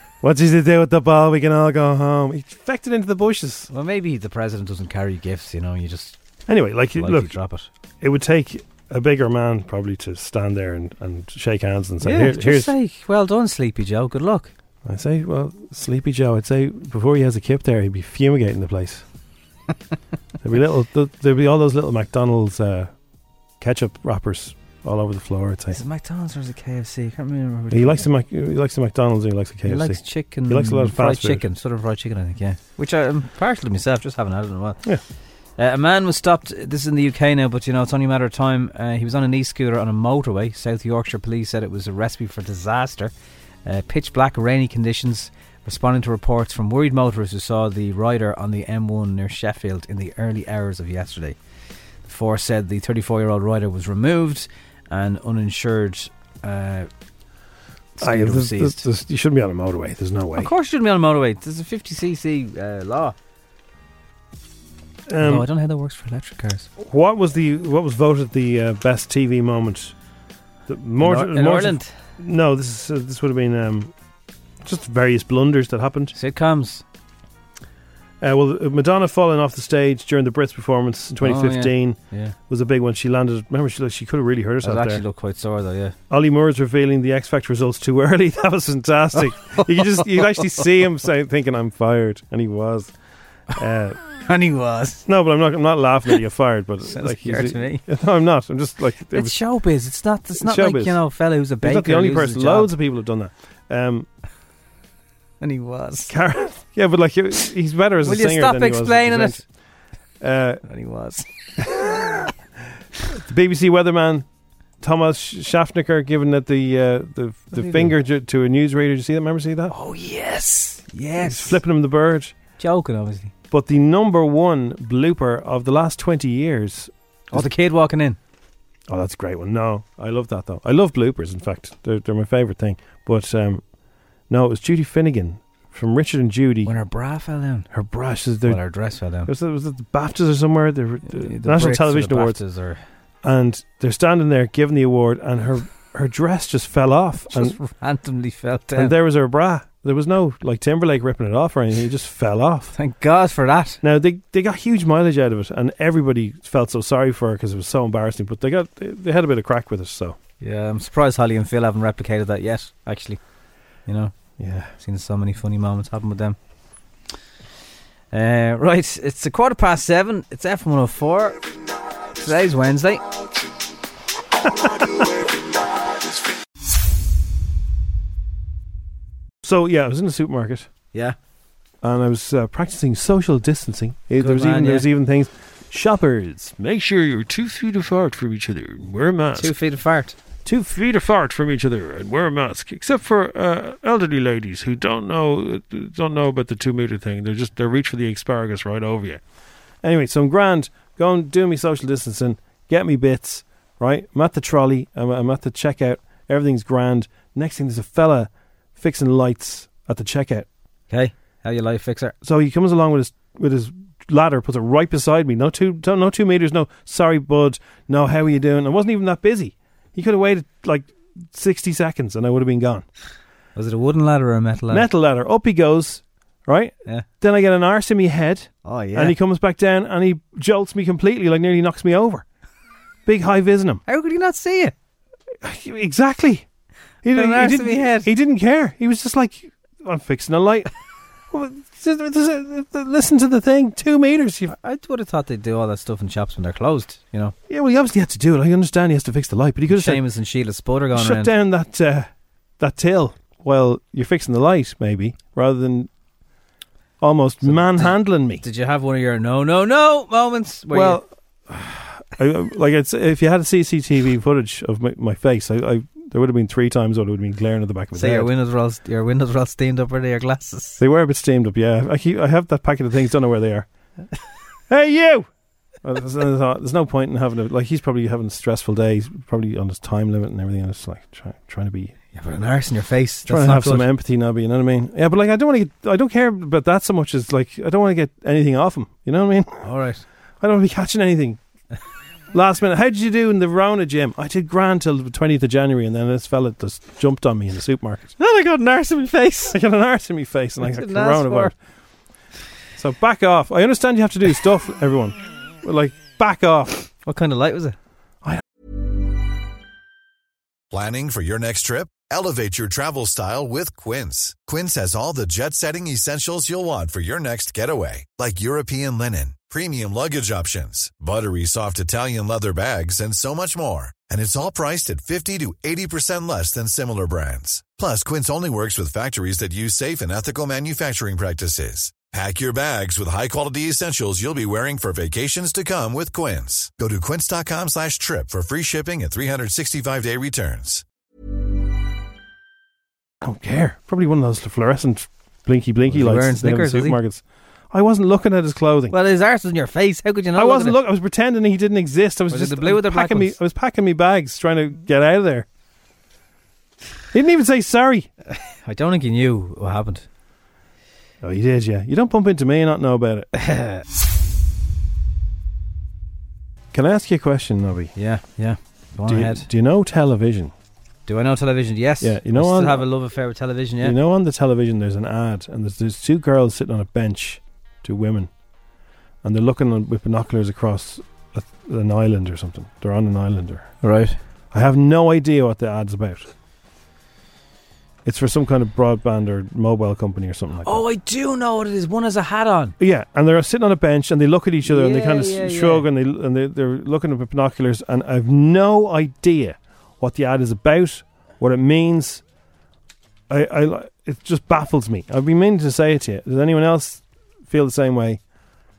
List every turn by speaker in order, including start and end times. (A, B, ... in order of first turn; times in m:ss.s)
0:00.2-0:03.7 A
0:03.7-0:06.2 B
0:06.5-0:07.3 A
0:07.0-0:07.7 B
0:08.0-0:12.7 A
0:12.0-0:14.5 B
0:14.8-0:19.0 A
0:20.4-0:22.9 A
0:23.6-0:25.8 A
0:25.7-0:28.0 B
0:27.7-0:31.4 A
0:29.6-0:34.8 B
0:35.6-0:43.1 B
0:43.6-0:51.4 B
0:52.0-0:56.9 B
0:58.0-0:58.8 B
0:58.0-1:00.5 A
1:00.4-1:03.1 B
1:05.1-1:05.4 A
1:05.2-1:06.7 B
1:06.8-1:09.9 A
1:10.7-1:13.9 A
1:11.0-1:11.9 B
1:14.6-1:16.1 A
1:16.1-1:16.8 B
1:18.2-1:25.0 A
1:21.2-1:22.3 B
1:24.6-1:25.9 B
1:26.1-1:32.9 A
1:29.6-1:30.5 B
1:33.5-1:34.0 A
1:34.2-1:35.0 B
1:35.0-1:39.4 A
1:36.9-1:37.8 B
1:39.1-1:42.7 B
1:40.4-1:41.0 A
1:41.6-1:44.1 A
1:45.4-1:46.1 B
1:46.1-1:49.4 A
1:48.0-1:49.4 B
1:50.2-1:50.6 A
1:50.7-1:51.2 B
1:51.6-1:52.1 A
1:53.1-1:54.2 A
1:54.8-1:59.7 A
1:57.5-1:57.9 B
1:59.7-2:01.6 B
2:01.2-2:02.3 A
2:02.6-2:03.3 B
2:03.5-2:07.5 A
2:07.3-2:08.2 B
2:08.9-2:13.6 A
2:14.3-2:16.7 A
2:16.6-2:17.7 B
2:17.7-2:18.6 A
2:18.5-2:19.3 B
2:19.2-2:22.4 A
2:21.1-2:22.8 B
2:23.2-2:27.6 A
2:27.3-2:28.9 B
2:28.7-2:32.7 A
2:32.7-2:33.8 B
2:33.8-2:40.2 A
2:40.4-2:43.2 B
2:43.8-2:44.1 B
2:44.4-2:44.7 A
2:44.8-2:46.4 B
2:48.1-2:51.4 B
2:52.2-2:53.0 B
2:54.4-2:55.1 A
2:59.4-3:00.7 A
3:01.8-3:09.5 A
3:04.2-3:04.9 B
3:09.3-3:10.2 B
3:10.4-3:19.2 A
3:19.8-3:30.5 A
3:30.9-3:32.1 B
3:32.2-3:42.8 A
3:43.6-3:44.9 B
3:44.7-3:52.2 A
3:48.6-3:49.2 B
3:53.0-3:53.8 A
3:53.9-3:54.7 B
3:55.4-3:56.4 A
3:57.0-4:00.7 A
3:57.1-3:58.1 B
4:01.3-4:04.5 A
4:04.5-4:07.3 B
4:07.5-4:10.0 A
4:09.7-4:11.3 B
4:10.9-4:12.1 A
4:12.6-4:15.9 A
4:17.0-4:18.4 A
4:17.4-4:21.0 B
4:20.7-4:28.3 A
4:27.9-4:30.8 B
4:30.8-4:33.7 A
4:34.7-4:35.3 A
4:35.8-4:42.0 A
4:42.1-4:43.9 B
4:43.2-4:49.7 A
4:49.6-4:50.0 B
4:50.4-4:51.4 A
4:52.3-4:58.1 A
4:58.2-4:59.5 B
4:59.5-5:01.5 A
5:00.6-5:01.5 B
5:02.7-5:06.8 A
5:07.0-5:07.8 B
5:10.7-5:40.8 C
5:43.2-5:48.9 A
5:45.9-5:47.0 B
5:48.9-5:50.8 B
5:50.4-5:55.5 A
5:52.3-5:53.3 B
5:57.1-5:58.1 A
5:58.6-6:00.0 B
6:01.2-6:03.3 A
6:03.4-6:03.8 B
6:06.7-6:07.9 A
6:08.0-6:09.4 B
6:09.0-6:10.5 A
6:11.1-6:14.0 B
6:12.0-6:12.8 A
6:13.8-6:18.3 A
6:19.2-6:23.8 A
6:23.8-6:24.2 B
6:24.5-6:26.3 A
6:28.0-6:30.8 A
6:30.6-6:32.7 B
6:32.8-6:42.2 A
6:34.6-6:35.8 B
6:43.3-6:48.2 A